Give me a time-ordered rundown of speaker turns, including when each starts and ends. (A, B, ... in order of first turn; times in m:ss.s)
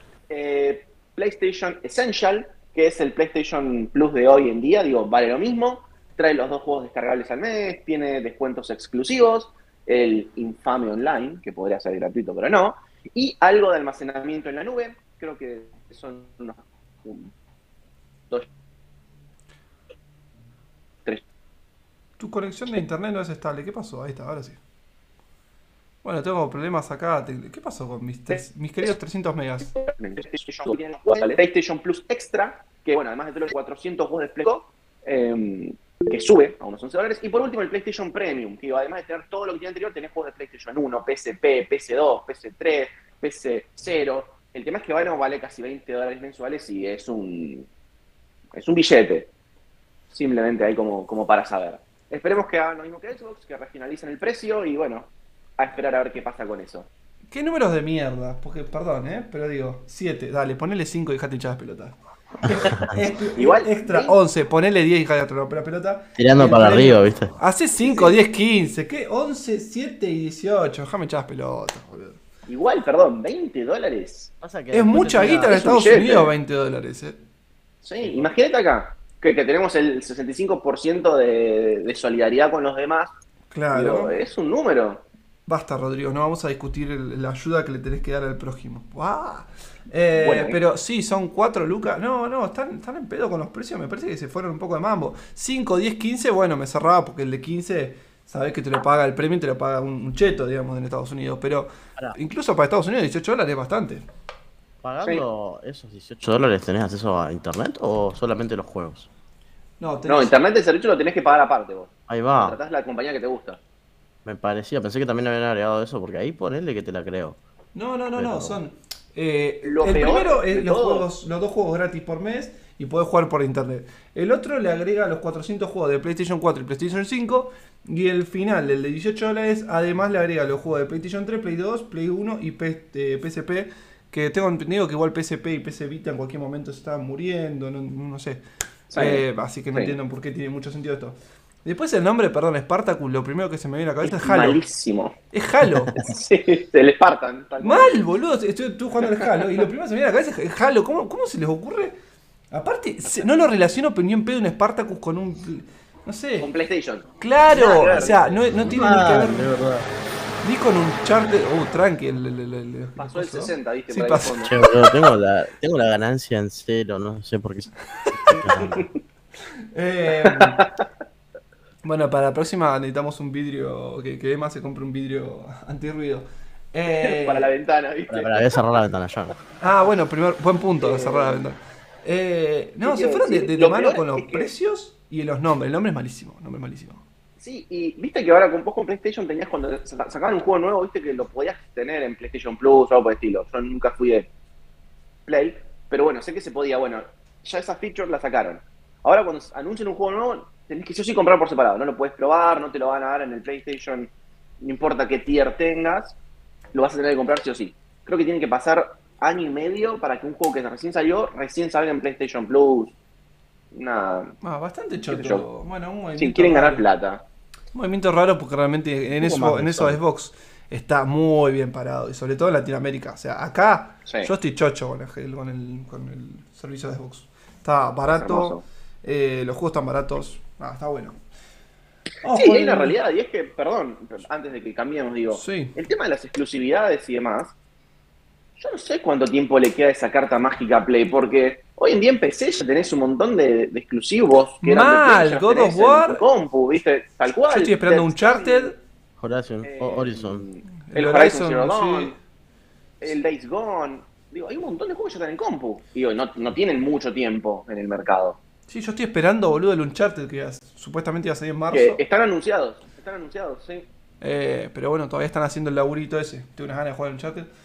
0:00.3-0:17.3 A
0:22.2-0:24.6 B
0:26.0-0:29.8 B
0:29.9-0:47.7 A
0:48.5-0:49.3 A
0:50.1-0:56.9 A
0:57.3-1:12.2 B
1:03.4-1:04.2 A
1:06.2-1:07.3 C
1:07.8-1:08.2 A
1:12.5-1:14.3 A
1:14.4-1:16.0 C
1:14.7-1:17.2 B
1:15.4-1:16.3 A
1:17.8-1:23.1 A
1:23.5-1:24.1 B
1:23.7-1:25.0 A
1:25.5-1:44.0 B
1:30.1-1:30.6 A
1:44.8-1:49.1 C
1:49.8-1:50.4 B
1:50.1-1:53.6 A
1:52.1-1:52.6 C
1:54.2-1:57.4 C
1:57.7-2:18.4 B
1:58.1-1:58.6 C
1:59.6-2:01.0 A
2:18.9-2:19.9 A
2:18.9-2:24.6 B
2:24.0-2:25.2 A
2:25.3-2:26.0 B
2:25.9-2:28.0 A
2:27.6-2:31.9 B
2:32.5-2:36.5 B
2:36.4-2:38.4 A
2:37.2-2:39.5 B
2:38.5-2:39.8 C
2:40.4-2:44.6 B
2:43.0-2:44.6 A
2:44.4-2:48.8 C
2:48.1-2:48.6 B
2:49.7-2:50.6 B
2:50.2-2:50.8 A
2:51.8-2:57.5 B
2:56.9-2:58.8 A
2:58.1-2:59.3 C
2:59.6-3:07.0 B
3:00.8-3:01.4 A
3:02.8-3:04.5 A
3:07.4-3:14.3 A
3:15.2-3:26.2 A
3:26.7-3:33.0 A
3:33.7-3:34.3 A
3:34.4-3:36.8 B
3:35.1-3:35.4 A
3:36.2-3:37.2 A
3:37.7-3:51.2 B
3:39.2-3:40.0 C
3:48.1-3:48.6 A
3:52.2-3:53.0 B
3:52.3-3:57.5 A
3:55.3-3:55.8 B
3:58.6-4:08.8 A
4:04.6-4:06.2 B
4:07.5-4:08.7 B
4:09.2-4:10.4 C
4:09.6-4:12.1 A
4:10.9-4:12.2 B
4:13.0-4:18.4 A
4:18.7-4:22.0 B
4:21.7-4:23.9 A
4:24.2-4:27.5 B